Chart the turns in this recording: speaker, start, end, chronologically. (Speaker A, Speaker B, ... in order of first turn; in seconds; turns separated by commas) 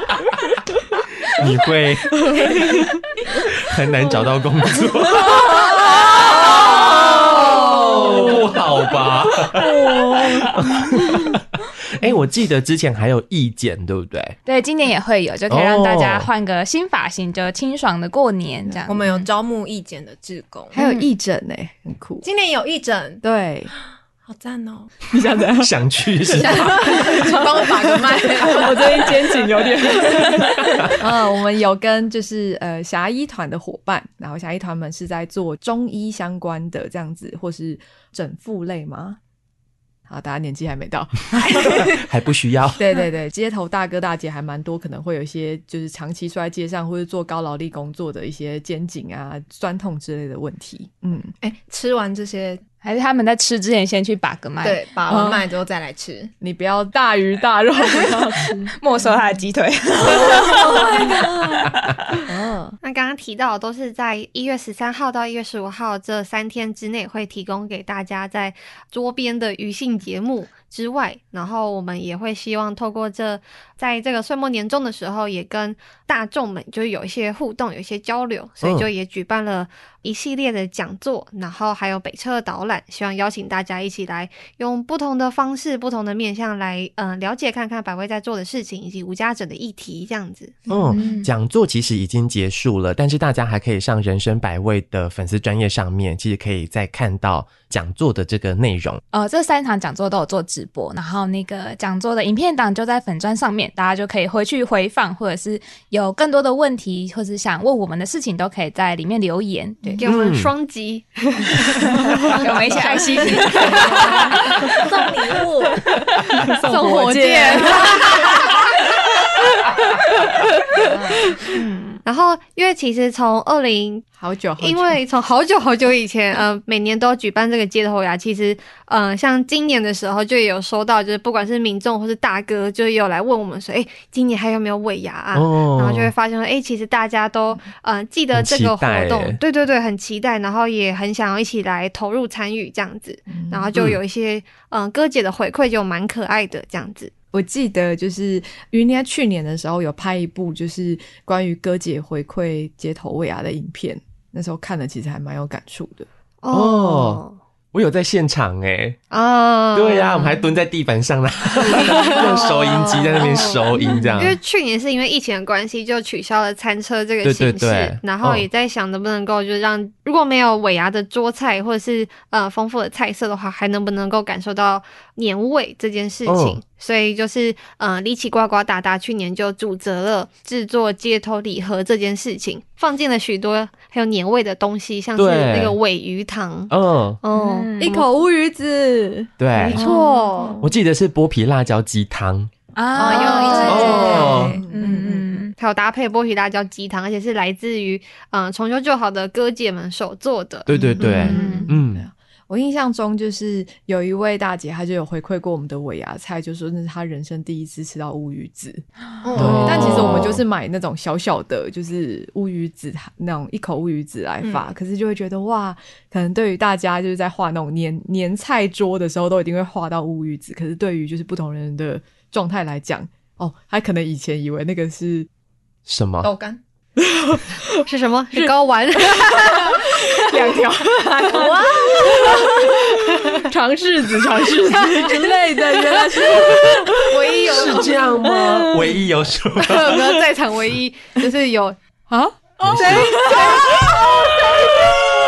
Speaker A: 1.3-2.7, Speaker B: 2.1-3.0, Speaker A: 3.3-11.4, Speaker B: 5.2-8.5, Speaker B: 9.5-11.2, Speaker A: 12.0-14.4, Speaker C: 14.5-19.3, Speaker A: 15.5-16.3, Speaker D: 18.9-20.8, Speaker B: 20.7-22.3, Speaker C: 20.8-21.1, Speaker D: 22.2-23.2, Speaker B: 23.2-23.7, Speaker D: 24.2-24.9, Speaker B: 25.1-39.2, Speaker A: 25.6-27.0, Speaker D: 26.4-29.5, Speaker B: 40.1-42.0, Speaker A: 41.7-42.9, Speaker B: 42.8-51.3, Speaker D: 51.4-52.6, Speaker C: 52.8-54.9, Speaker D: 54.6-56.3, Speaker B: 55.1-55.4, Speaker B: 56.4-58.7, Speaker C: 58.8-62.1, Speaker B: 60.1-61.0, Speaker D: 60.3-61.6, Speaker B: 62.3-62.8, Speaker E: 62.8-90.7, Speaker A: 78.6-78.9, Speaker A: 90.7-99.0, Speaker C: 90.9-91.3, Speaker C: 99.1-110.0, Speaker E: 110.0-114.8, Speaker A: 110.1-110.5, Speaker C: 111.5-114.7, Speaker D: 114.5-115.9, Speaker B: 115.9-118.5, Speaker E: 116.4-118.5, Speaker D: 117.5-118.2, Speaker B: 120.7-121.6, Speaker E: 122.0-124.1, Speaker B: 124.2-125.0, Speaker E: 124.6-147.1, Speaker A: 135.3-136.1, Speaker A: 138.3-139.4, Speaker B: 143.3-143.7, Speaker A: 143.7-144.0, Speaker B: 147.3-156.1, Speaker E: 156.4-157.4, Speaker A: 156.5-157.2, Speaker A: 157.7-159.0, Speaker E: 159.1-160.5, Speaker A: 159.7-164.4, Speaker E: 161.6-188.1, Speaker A: 167.2-168.4, Speaker A: 176.3-176.6, Speaker A: 185.2-185.8, Speaker A: 186.7-187.2, Speaker C: 187.3-188.0, Speaker B: 187.8-189.3, Speaker A: 189.4-189.8, Speaker E: 189.6-190.7, Speaker C: 189.7-190.5, Speaker A: 190.6-192.5, Speaker C: 192.8-195.5, Speaker B: 193.0-195.2, Speaker E: 193.0-194.7, Speaker A: 193.7-194.6, Speaker E: 195.6-201.7, Speaker A: 200.7-202.1, Speaker B: 200.7-225.3, Speaker C: 201.0-201.7, Speaker D: 209.2-210.2, Speaker A: 209.4-210.4, Speaker D: 214.4-214.7, Speaker A: 225.9-226.3, Speaker D: 226.2-226.6, Speaker B: 227.0-237.2, Speaker E: 227.8-229.8, Speaker D: 231.3-232.6, Speaker D: 237.0-237.8, Speaker E: 237.0-238.2, Speaker A: 237.4-240.2, Speaker B: 237.9-238.9, Speaker E: 239.6-241.8, Speaker B: 242.1-244.1, Speaker A: 242.6-243.1, Speaker E: 242.6-244.8, Speaker D: 242.8-243.1